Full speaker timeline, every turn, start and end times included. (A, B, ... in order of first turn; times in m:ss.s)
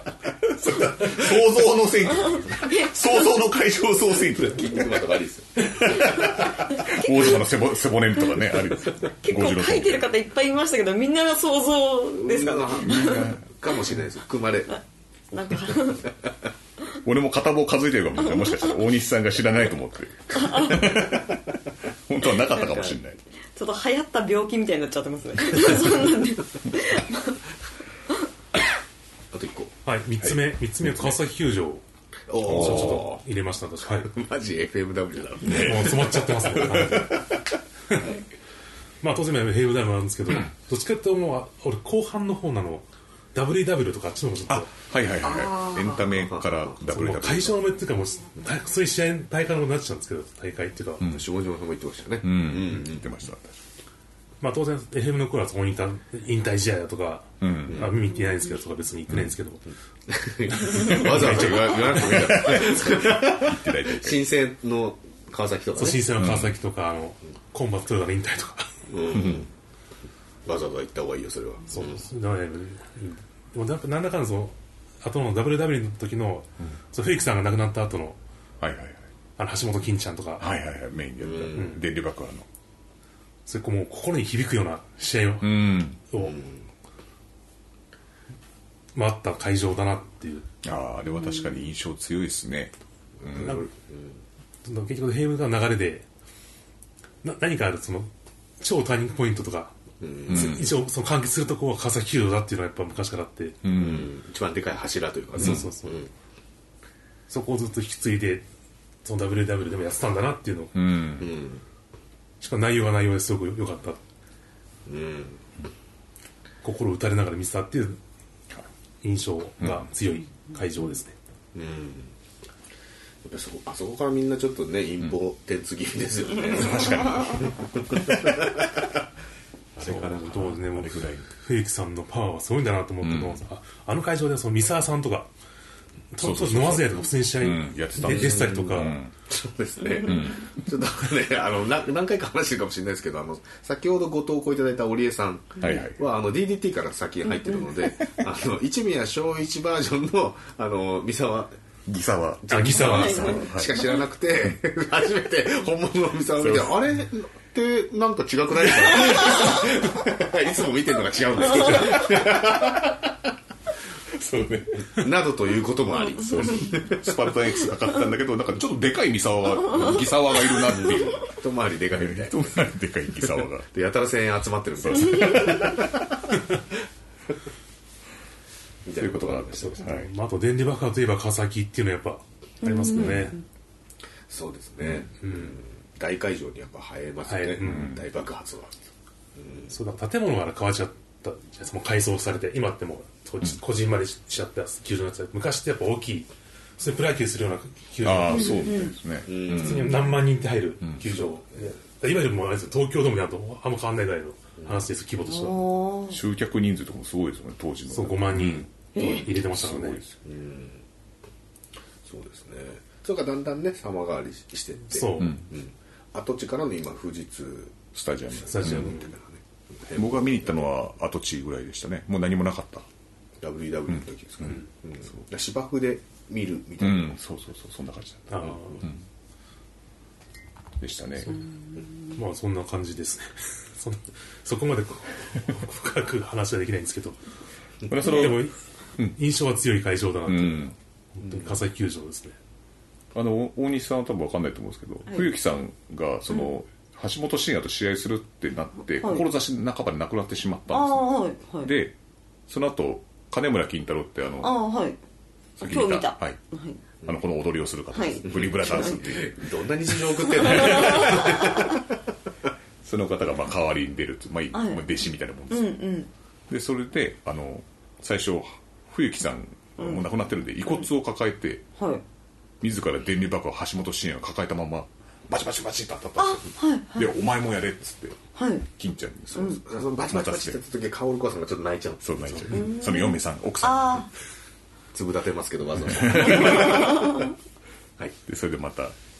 0:00.4-0:04.9 A
0:02.3-0:02.9 B
0:04.2-0:06.0 C
0:05.7-0:10.1 A
0:06.7-0:07.4 B
0:09.0-0:13.3 B
0:12.1-0:14.8 C
0:12.8-0:13.4 A
0:15.3-0:16.1 B
0:17.0-0:23.2 A
0:20.3-0:21.1 B
0:23.5-0:27.4 B
0:29.3-0:29.8 C
0:29.8-0:31.8 D
0:32.3-0:33.2 C
0:32.4-0:34.1 D
0:32.4-0:33.1 A
0:34.0-0:37.3 C
0:35.4-0:36.1 A
0:35.5-0:37.3 D
0:36.6-0:37.0 A
0:39.0-0:44.7 D
0:44.5-0:47.6 A
0:45.2-0:47.1 C
0:46.9-0:51.0 D
0:51.0-0:51.2 A
0:51.0-0:53.1 C
0:52.2-0:53.6 A
0:54.4-0:59.6 D
0:57.4-0:57.9 A
0:57.7-0:57.9 C
1:00.1-1:06.2 C
1:00.5-1:02.4 D
1:00.8-1:04.3 A
1:05.8-1:08.7 D
1:06.1-1:06.5 A
1:08.9-1:09.5 C
1:09.1-1:09.5 A
1:10.4-1:12.0 C
1:11.7-1:18.2 D
1:18.6-1:19.0 A
1:19.4-1:20.5 D
1:20.4-1:22.5 A
1:21.2-1:21.8 C
1:21.5-1:21.8 D
1:23.5-1:26.4 D
1:25.4-1:26.0 A
1:26.2-1:26.6 C
1:29.0-1:30.5 D
1:30.6-1:33.6 A
1:33.2-1:34.2 C
1:33.4-1:33.7 D
1:34.6-1:36.1 D
1:37.2-1:39.8 D
1:40.0-1:40.7 C
1:40.3-1:43.6 D
1:40.3-1:40.7 A
1:43.6-1:44.1 A
1:43.7-1:46.1 C
1:45.4-1:46.0 D
1:45.4-1:45.6 A
1:47.3-1:48.4 D
1:49.0-1:50.8 D
1:50.8-1:51.3 A
1:51.2-1:51.6 C
1:52.4-1:54.0 D
1:54.9-1:55.5 C
1:56.6-1:58.0 D
1:59.0-2:01.1 D
1:59.6-1:59.9 A
2:01.5-2:02.1 C
2:03.2-2:08.9 C
2:06.5-2:08.4 A
2:09.8-2:11.3 A
2:09.8-2:15.3 D
2:13.0-2:13.4 A
2:16.1-2:19.0 D
2:16.2-2:19.1 A
2:18.0-2:31.5 C
2:20.0-2:20.5 A
2:25.6-2:26.0 A
2:27.8-2:28.2 A
2:31.9-2:33.9 A
2:32.4-2:43.0 C
2:32.5-2:33.5 D
2:32.9-2:33.3 B
2:36.4-2:36.9 A
2:41.6-2:43.0 A
2:44.1-2:45.1 A
2:44.8-2:47.3 C
2:46.2-2:51.3 A
2:50.7-2:52.7 C
2:51.9-2:53.7 A
2:53.2-2:56.1 C
2:54.8-2:56.0 A
2:58.8-2:59.8 C
2:58.9-3:00.1 A
2:59.5-3:03.4 D
3:02.6-3:03.3 B
3:02.9-3:03.3 A
3:04.3-3:08.8 C
3:05.2-3:05.6 D
3:07.2-3:07.9 D
3:07.6-3:08.0 A
3:09.4-3:09.7 C
3:09.7-3:18.8 D
3:18.0-3:20.1 A
3:18.3-3:18.9 B
3:19.2-3:20.0 C
3:19.5-3:25.7 D
3:21.1-3:21.4 C
3:25.3-3:26.2 B
3:26.1-3:30.2 A
3:27.9-3:30.0 D
3:28.9-3:29.2 B
3:30.2-3:30.8 C
3:32.0-3:40.6 C
3:34.9-3:35.4 D
3:37.9-3:38.9 A
3:38.5-3:39.1 D
3:39.9-3:42.9 A
3:43.4-3:47.2 C
3:43.9-3:44.6 A
3:46.8-3:49.0 A
3:48.3-3:48.9 D
3:50.8-3:51.4 A
3:52.1-3:57.2 D
3:57.9-3:59.2 A
3:57.9-4:02.4 D
4:00.3-4:00.8 A
4:03.1-4:11.1 A
4:09.0-4:09.3 B
4:10.7-4:11.7 B
4:11.6-4:11.9 A
4:12.5-4:14.6 A
4:14.4-4:15.0 B
4:15.6-4:16.4 A
4:15.6-4:16.8 B
4:17.0-4:19.4 A
4:17.9-4:19.0 B
4:18.2-4:21.8 C
4:20.3-4:21.6 B
4:20.3-4:21.4 A
4:22.8-4:25.8 A
4:24.5-4:24.9 B
4:25.5-4:26.1 B
4:26.5-4:31.6 A
4:29.8-4:30.0 B
4:31.8-4:32.0 B
4:32.6-4:39.6 A
4:36.2-4:37.1 B
4:38.4-4:38.6 B
4:39.4-4:42.6 C
4:40.1-4:40.6 A
4:42.0-4:44.1 A
4:42.5-4:44.1 B
4:44.9-4:47.3 C
4:45.8-4:47.0 A
4:46.4-4:47.2 B
4:48.3-4:49.0 A